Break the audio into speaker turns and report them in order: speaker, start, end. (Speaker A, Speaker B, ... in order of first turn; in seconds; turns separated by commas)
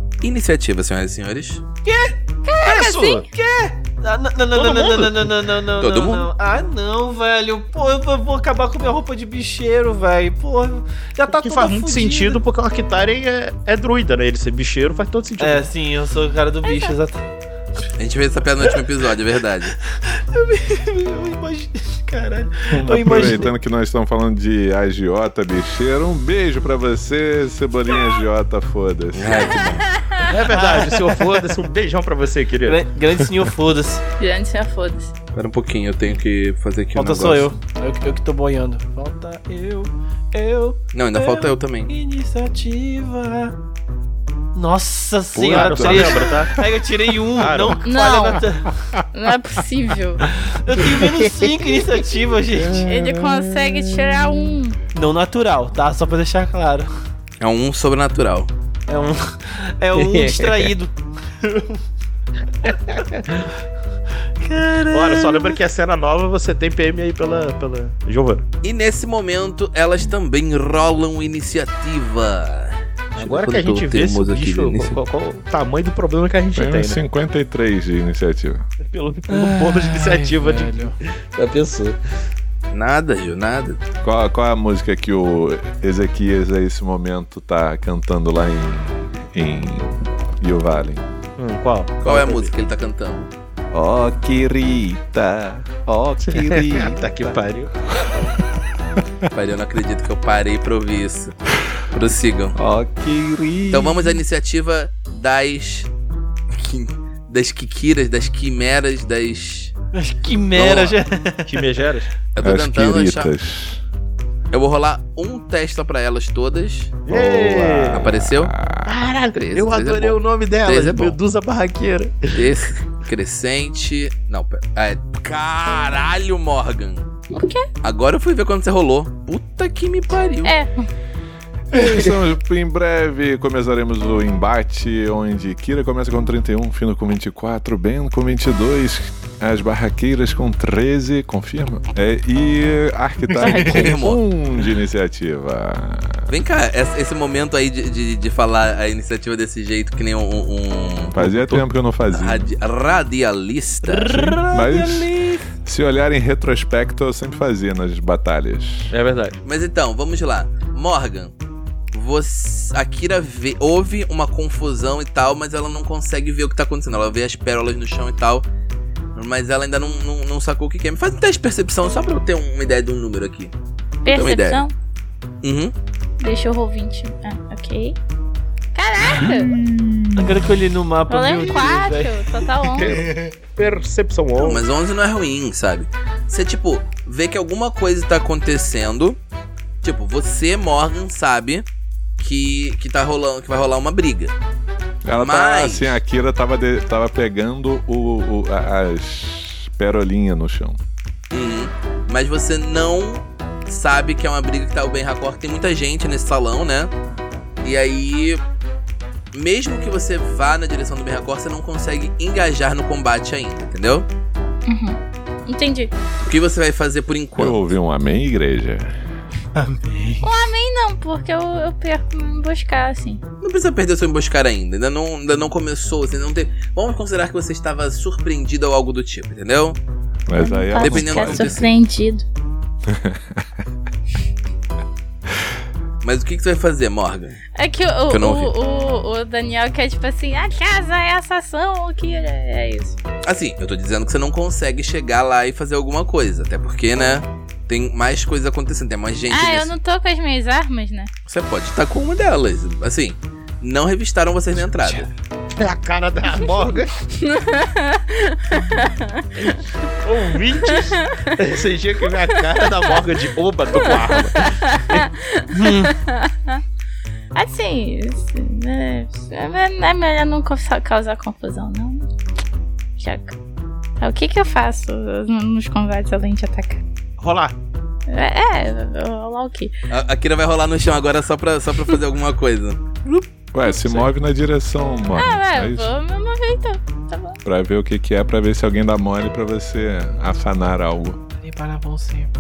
Speaker A: 0.2-1.6, Speaker B: 1.9-2.1, Speaker C: 2.5-3.3, Speaker D: 2.6-3.3, Speaker B: 3.3-12.4, Speaker D: 4.5-5.1, Speaker A: 5.8-6.3, Speaker D: 11.3-15.7, Speaker B: 15.4-17.3, Speaker C: 16.6-17.0, Speaker A: 18.0-19.8, Speaker B: 19.9-23.5, Speaker E: 22.8-29.7, Speaker D: 23.0-23.3, Speaker A: 29.1-29.9, Speaker C: 29.7-30.2, Speaker D: 30.2-32.8, Speaker B: 30.4-31.4, Speaker B: 32.6-34.0, Speaker C: 34.2-35.1, Speaker A: 35.3-37.5, Speaker B: 37.0-43.5, Speaker A: 40.9-41.9, Speaker B: 44.5-48.8, Speaker E: 45.3-46.5, Speaker D: 45.5-46.6, Speaker D: 47.3-47.9, Speaker C: 47.8-48.5, Speaker C: 49.1-50.2, Speaker B: 50.5-52.9, Speaker E: 52.5-54.2, Speaker C: 52.7-54.8, Speaker B: 54.9-56.9, Speaker A: 57.4-58.5, Speaker B: 58.9-61.8, Speaker D: 60.0-60.7, Speaker D: 62.6-63.3, Speaker B: 64.4-65.6, Speaker D: 64.9-68.5, Speaker A: 68.6-75.0, Speaker D: 73.2-77.0, Speaker E: 76.5-78.7, Speaker D: 78.8-82.0, Speaker B: 79.3-81.0, Speaker A: 82.7-83.8, Speaker E: 84.0-91.0, Speaker D: 91.4-92.5, Speaker A: 92.0-93.3, Speaker E: 93.7-97.4, Speaker D: 96.2-98.4, Speaker A: 99.3-102.6, Speaker E: 102.5-104.2, Speaker A: 103.7-105.9, Speaker A: 106.5-109.7, Speaker B: 109.9-111.7, Speaker A: 110.5-111.0, Speaker D: 111.5-112.1, Speaker A: 112.3-113.3, Speaker E: 112.4-113.8, Speaker A: 114.5-117.0, Speaker D: 117.1-118.1, Speaker E: 117.1-119.0, Speaker A: 117.9-118.5, Speaker D: 118.9-122.7, Speaker A: 119.3-121.2, Speaker A: 122.3-127.1, Speaker C: 127.3-127.7, Speaker A: 127.8-130.5, Speaker C: 130.4-130.9, Speaker E: 131.7-146.3, Speaker D: 131.7-132.1, Speaker C: 143.4-143.8, Speaker A: 143.6-144.2, Speaker A: 146.3-151.3, Speaker E: 151.1-152.5, Speaker A: 152.1-154.4, Speaker B: 153.9-155.4, Speaker D: 154.1-154.5, Speaker E: 154.5-155.1, Speaker E: 155.6-158.9, Speaker D: 158.9-159.4, Speaker A: 159.4-161.3, Speaker A: 161.9-168.4, Speaker A: 169.2-173.5, Speaker C: 174.0-174.7, Speaker A: 174.1-174.6, Speaker A: 175.4-175.7, Speaker C: 176.2-178.0, Speaker C: 178.7-179.6, Speaker B: 180.2-182.3, Speaker C: 181.1-183.0, Speaker D: 182.8-184.7, Speaker A: 184.4-189.2, Speaker A: 189.8-191.7, Speaker A: 192.2-194.3, Speaker E: 195.0-200.8, Speaker A: 195.2-196.0, Speaker A: 201.3-206.9, Speaker A: 207.6-208.4, Speaker A: 209.3-214.1, Speaker C: 214.7-215.9, Speaker A: 216.2-217.7, Speaker E: 217.4-219.0, Speaker B: 219.6-220.3, Speaker C: 220.2-223.2, Speaker A: 223.4-229.8, Speaker E: 230.3-231.7, Speaker C: 230.3-232.3, Speaker A: 230.8-231.7, Speaker E: 232.9-233.6, Speaker A: 236.0-237.4, Speaker C: 237.6-243.0, Speaker A: 238.1-238.5, Speaker A: 243.2-249.7, Speaker C: 249.3-251.1, Speaker A: 251.3-255.1, Speaker B: 254.8-255.1, Speaker D: 255.6-256.9, Speaker C: 257.2-259.5, Speaker D: 260.0-265.0, Speaker C: 260.9-261.2, Speaker C: 263.8-266.6, Speaker B: 265.5-265.9, Speaker C: 267.3-272.1, Speaker C: 273.0-273.4, Speaker C: 274.0-276.8, Speaker D: 277.2-277.6, Speaker C: 278.1-279.7, Speaker A: 279.9-283.3, Speaker E: 283.5-285.9, Speaker C: 285.1-287.4, Speaker E: 287.4-291.2, Speaker B: 291.4-292.3